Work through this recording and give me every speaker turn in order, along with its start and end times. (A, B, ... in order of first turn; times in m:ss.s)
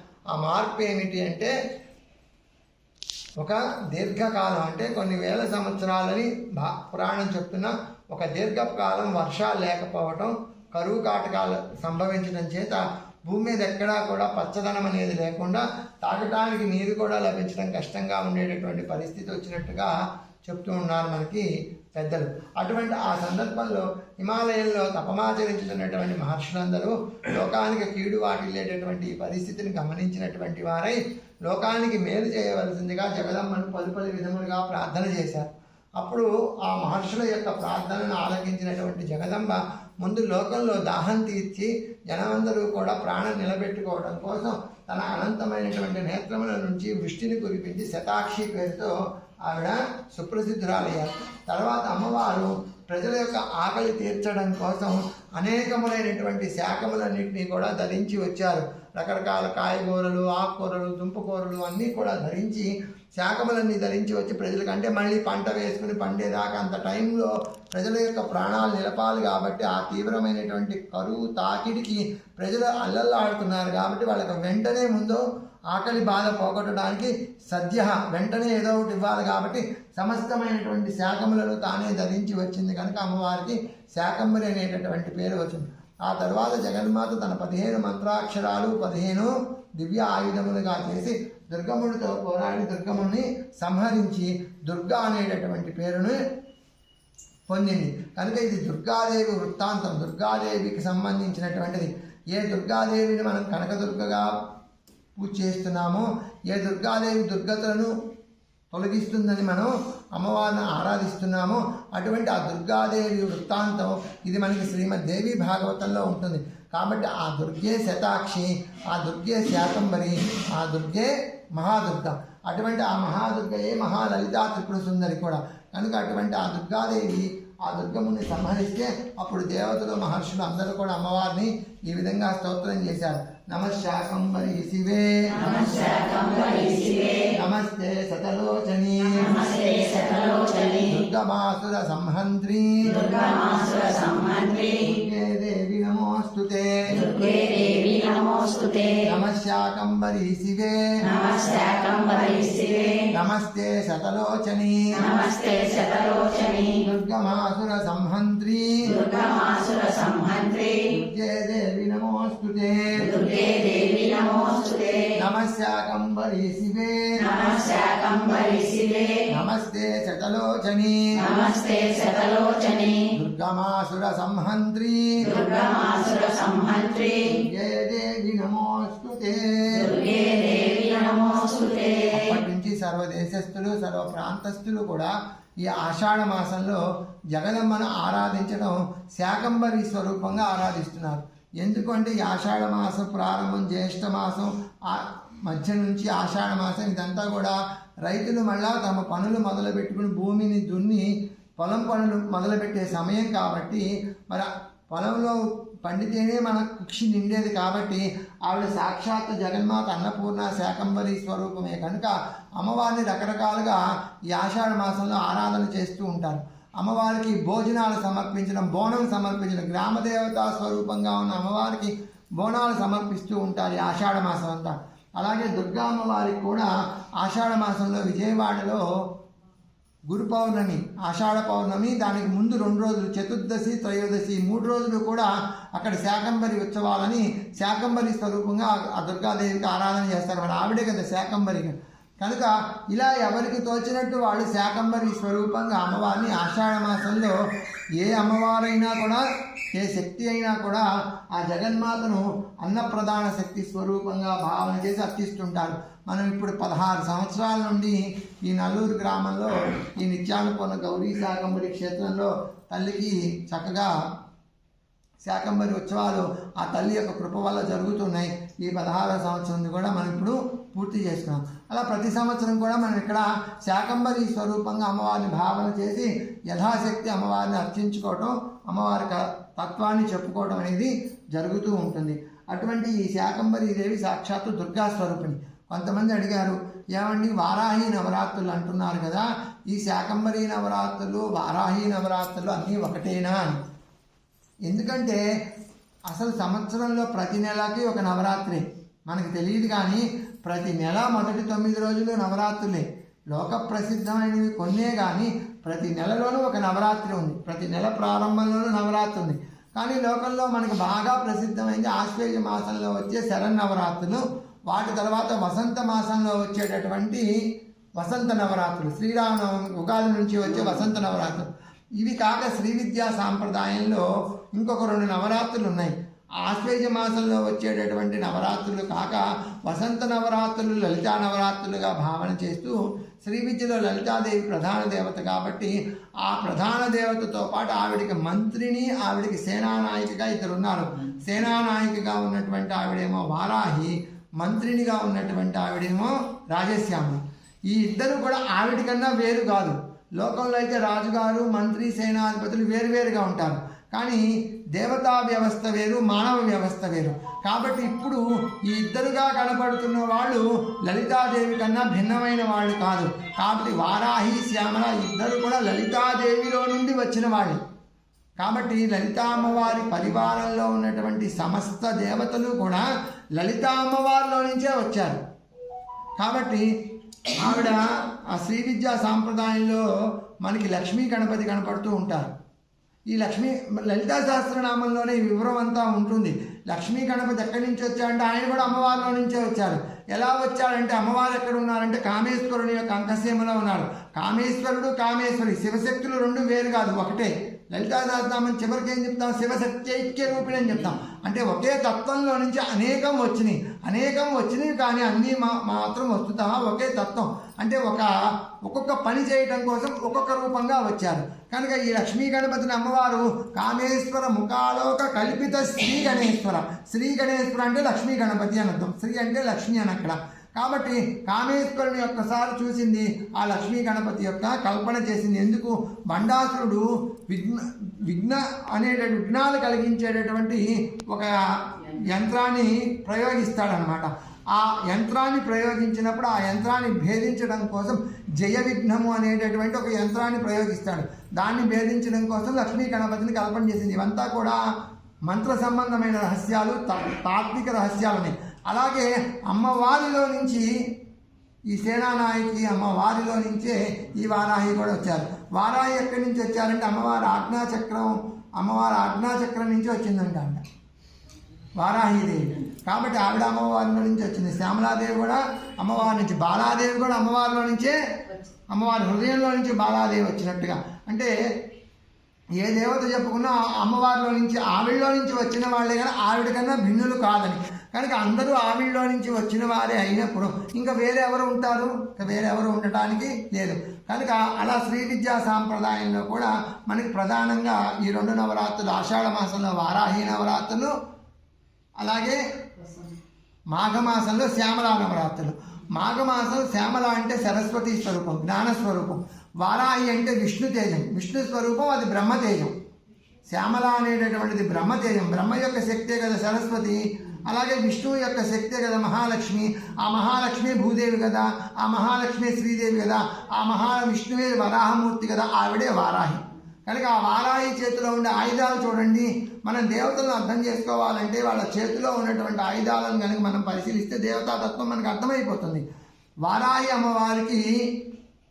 0:00.3-0:01.5 A
0:03.4-0:48.9 A
0:49.5-1:36.2 A
1:37.5-1:44.3 A
1:45.2-1:47.9 A
1:48.7-2:15.5 A
2:15.4-2:17.3 B
2:17.3-2:19.3 A
2:19.2-2:20.9 B
2:20.8-2:23.1 A
2:22.9-2:24.9 B
2:24.8-2:27.0 A
2:26.9-2:29.0 B
2:29.0-2:30.8 A
2:31.0-2:33.1 B
2:33.1-2:35.0 A
2:35.0-2:36.8 B
2:36.8-2:39.0 A
2:38.9-2:40.9 B
2:40.9-2:43.2 A
2:43.0-2:45.2 B
2:45.2-2:47.3 A
2:47.2-2:49.3 B
2:49.3-2:51.3 A
2:51.2-2:53.1 B
2:53.1-2:55.3 A
2:55.2-2:57.3 B
2:57.3-2:59.9 A
2:59.7-3:02.3 B
3:02.1-3:48.8 A
3:50.1-4:07.4 A
4:08.0-4:09.2 A
4:09.7-4:23.9 A
4:25.2-4:53.5 A
4:54.7-4:55.2 A
4:56.1-5:17.3 A
5:18.0-5:21.5 A
5:22.0-5:24.0 A
5:24.6-6:07.6 A
6:08.4-6:12.9 A
6:13.4-6:15.2 A
6:16.2-6:16.7 A
6:17.3-6:19.8 A
6:20.4-6:22.3 A
6:23.1-6:48.1 A
6:48.6-7:24.6 A
7:25.3-7:30.7 A
7:31.7-7:40.6 A
7:41.8-7:48.0 A
7:48.7-7:51.3 A
7:52.6-8:10.9 A
8:12.0-8:12.4 A
8:13.7-8:22.7 A
8:23.5-8:45.8 A
8:46.4-8:47.7 A